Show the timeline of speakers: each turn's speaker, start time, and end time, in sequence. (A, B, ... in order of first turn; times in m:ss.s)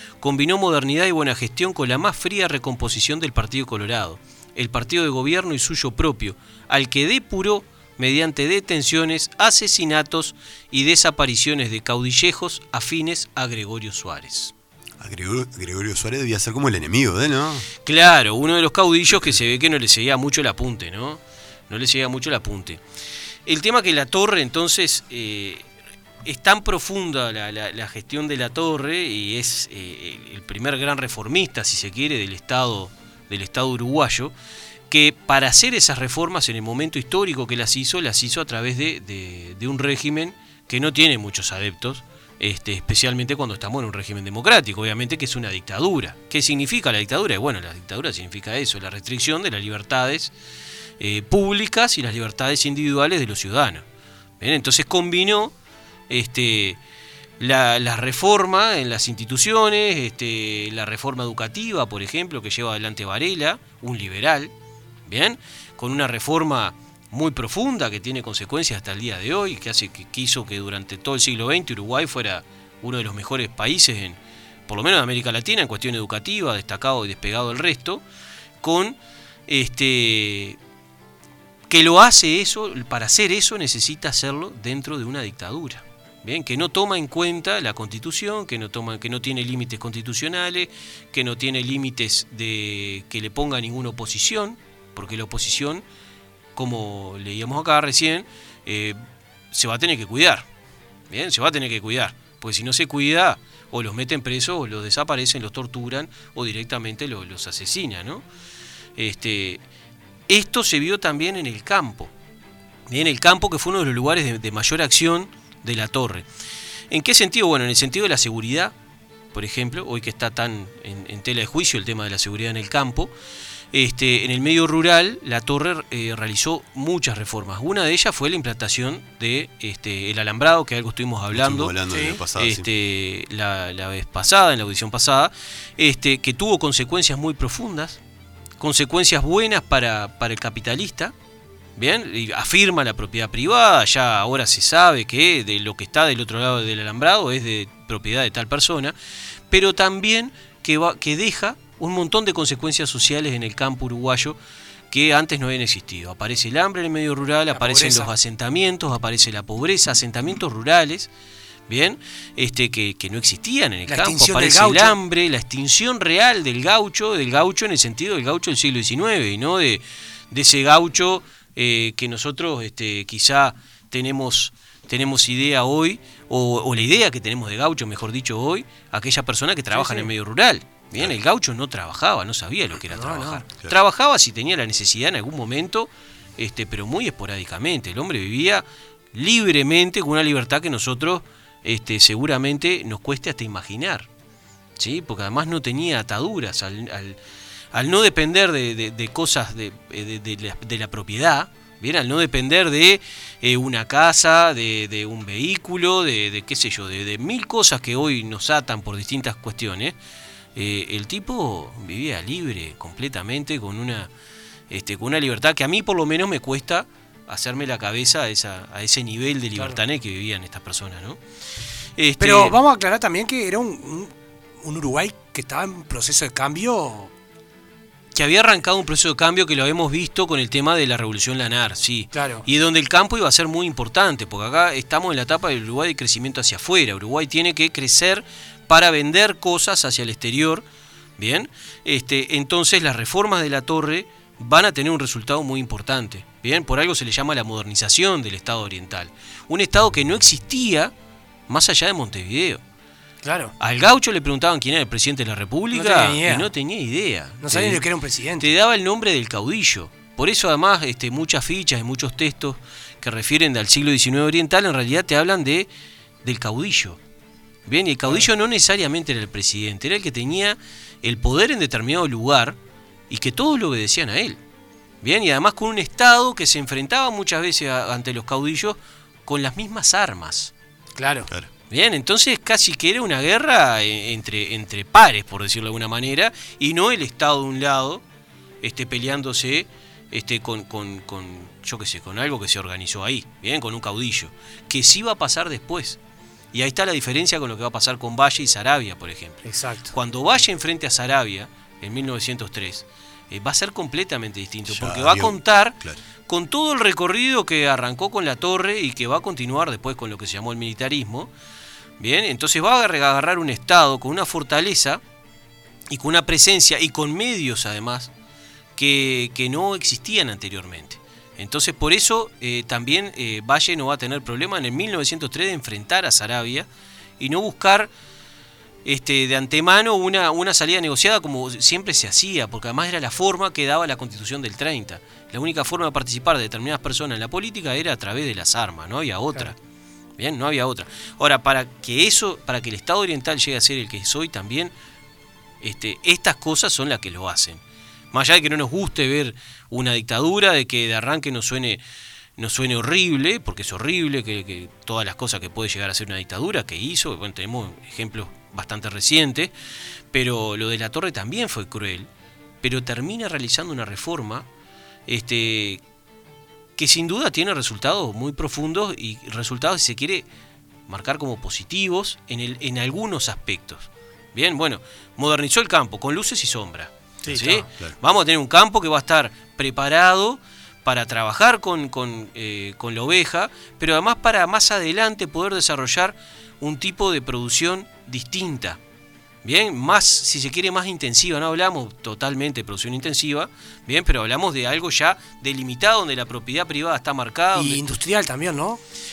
0:00.2-0:14.5 A
0:15.0-0:17.7 B
0:17.9-0:22.8 A
0:23.5-0:25.6 A
0:26.2-0:34.3 A
0:34.9-0:50.3 A
0:51.0-0:53.8 A
0:54.4-0:55.5 A
0:56.1-0:56.8 A
0:57.4-1:04.5 A
1:05.1-1:18.0 A
1:18.6-1:19.0 A
1:19.5-1:20.6 A
1:21.7-1:35.8 A
1:36.6-1:39.0 A
1:39.5-1:40.5 A
1:41.1-1:48.2 A
1:49.0-1:49.6 A
1:50.3-1:52.1 A
1:52.9-1:56.3 A
1:56.9-1:58.7 A
1:59.3-2:03.1 A
2:03.7-2:11.8 A
2:11.3-2:12.7 B
2:11.9-2:12.2 C
2:12.4-2:18.0 A
2:18.6-2:21.1 A
2:21.8-2:29.0 A
2:29.5-2:34.4 A
2:34.9-2:41.1 A
2:37.5-2:38.1 C
2:41.7-3:14.1 A
2:43.9-2:45.0 C
2:59.7-3:00.1 C
3:02.9-3:03.4 C
3:14.8-3:17.2 A
3:17.7-3:30.0 A
3:30.6-3:34.1 A
3:34.7-3:41.2 A
3:42.0-3:42.6 A
3:42.2-3:47.1 C
3:48.1-4:00.6 A
3:52.1-3:52.4 C
4:01.2-4:10.9 A
4:11.5-4:12.6 A
4:13.2-4:13.5 C
4:13.6-4:17.8 A
4:15.7-4:16.5 C
4:17.4-4:18.5 C
4:18.4-4:25.7 A
4:26.2-4:27.0 A
4:27.7-4:32.6 A
4:33.1-4:34.4 A
4:35.0-4:40.5 A
4:41.0-4:41.3 C
4:41.7-4:48.0 A
4:48.6-4:56.0 A
4:56.5-5:11.3 A
4:59.5-4:59.9 C
5:04.7-5:06.0 B
5:12.0-5:15.0 A
5:15.9-5:18.1 A
5:18.8-5:26.7 A
5:27.2-5:27.9 A
5:28.8-5:39.6 A
5:40.2-5:44.7 A
5:45.6-5:47.6 A
5:48.1-5:51.8 A
5:52.4-5:59.5 A
6:00.1-6:02.1 A
6:02.6-6:04.5 A
6:05.1-6:05.8 A
6:06.8-6:10.2 A
6:10.9-6:28.8 A
6:17.3-6:17.6 C
6:29.4-6:37.8 A
6:37.6-6:38.8 C